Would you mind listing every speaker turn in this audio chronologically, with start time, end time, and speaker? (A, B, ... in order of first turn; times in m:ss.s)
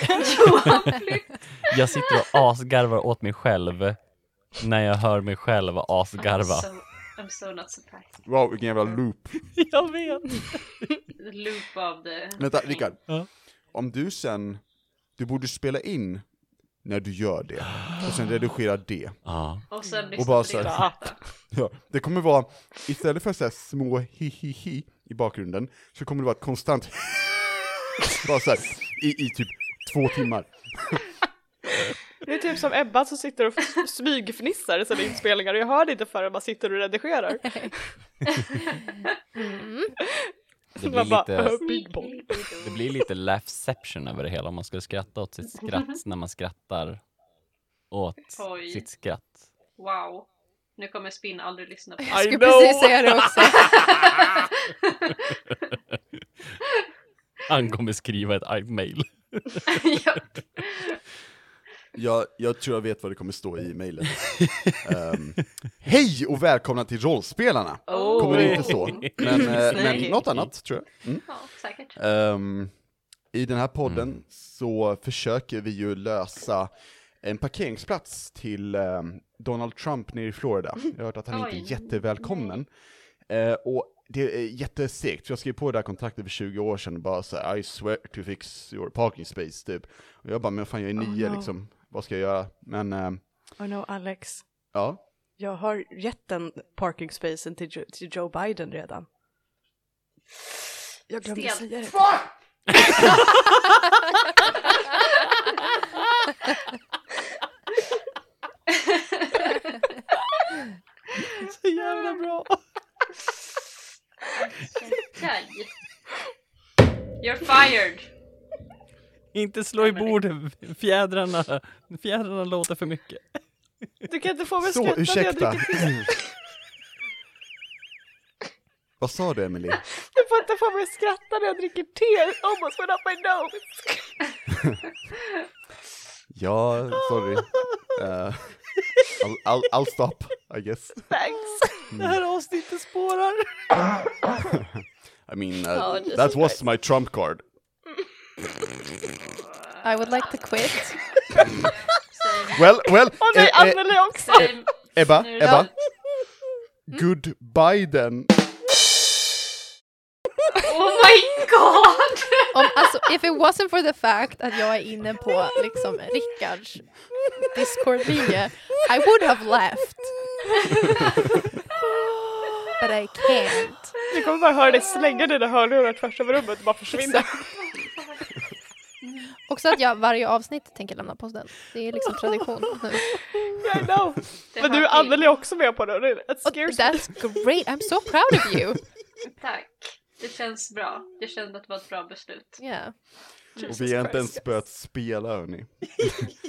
0:00.2-0:01.7 A
0:01.6-0:06.7 B
0:06.2-0:08.3 A
0:08.2-0:09.5 C
0:09.6-0:10.3 B
0:11.2-0:12.9 A
0:12.4-0:19.6 C
0:19.2-0:19.6 B
0:19.7-0:21.2 A
0:20.1-0:31.2 C
0:20.4-0:21.1 D
0:32.2-0:38.4 D
0:39.3-0:39.9 E
0:40.8-0:42.6 D
0:40.8-0:41.8 B
0:41.6-0:42.8 A
0:42.6-0:47.2 B
0:47.9-0:49.5 B
0:48.4-0:49.0 A
0:49.8-0:52.2 A
0:52.1-0:53.8 E
0:52.1-0:53.8 B
0:53.6-0:55.1 A
0:57.5-0:59.8 B
0:59.7-1:01.0 A
1:01.9-1:33.6 C
1:07.9-1:10.2 D
1:07.9-1:10.1 A
1:10.2-1:10.5 B
1:11.3-1:12.0 A
1:21.3-1:22.6 A
1:31.1-1:31.5 D
1:33.6-1:39.1 D
1:34.7-1:35.0 C
1:41.1-1:42.3 D
1:41.2-1:42.2 A
1:48.7-1:49.8 A
1:51.6-1:52.6 B
1:51.8-1:52.2 A
1:54.3-1:55.7 A
1:57.2-1:58.1 A
1:59.3-2:04.0 B
1:59.8-2:00.2 A
2:04.1-2:06.2 D
2:04.6-2:06.1 C
2:09.0-2:09.9 C
2:10.1-2:14.2 D
2:16.3-2:21.1 C
2:21.1-2:22.0 D
2:21.9-2:22.2 C
2:24.7-2:27.4 C
2:25.7-2:26.6 D
2:29.4-2:30.7 A
2:29.8-2:31.5 E
2:31.5-2:32.6 A
2:32.5-2:36.1 C
2:33.2-2:34.7 D
2:34.2-2:35.7 A
2:36.9-2:38.4 C
2:40.6-2:43.0 A
2:42.5-2:51.1 E
2:52.8-2:54.1 E
2:54.0-2:57.6 D
2:56.9-2:57.4 E
2:57.6-2:58.4 A
2:59.3-3:03.6 E
3:03.2-3:07.5 D
3:04.5-3:05.2 A
3:06.4-3:09.0 E
3:09.3-3:12.9 A
3:12.6-3:14.6 E
3:13.6-3:16.3 C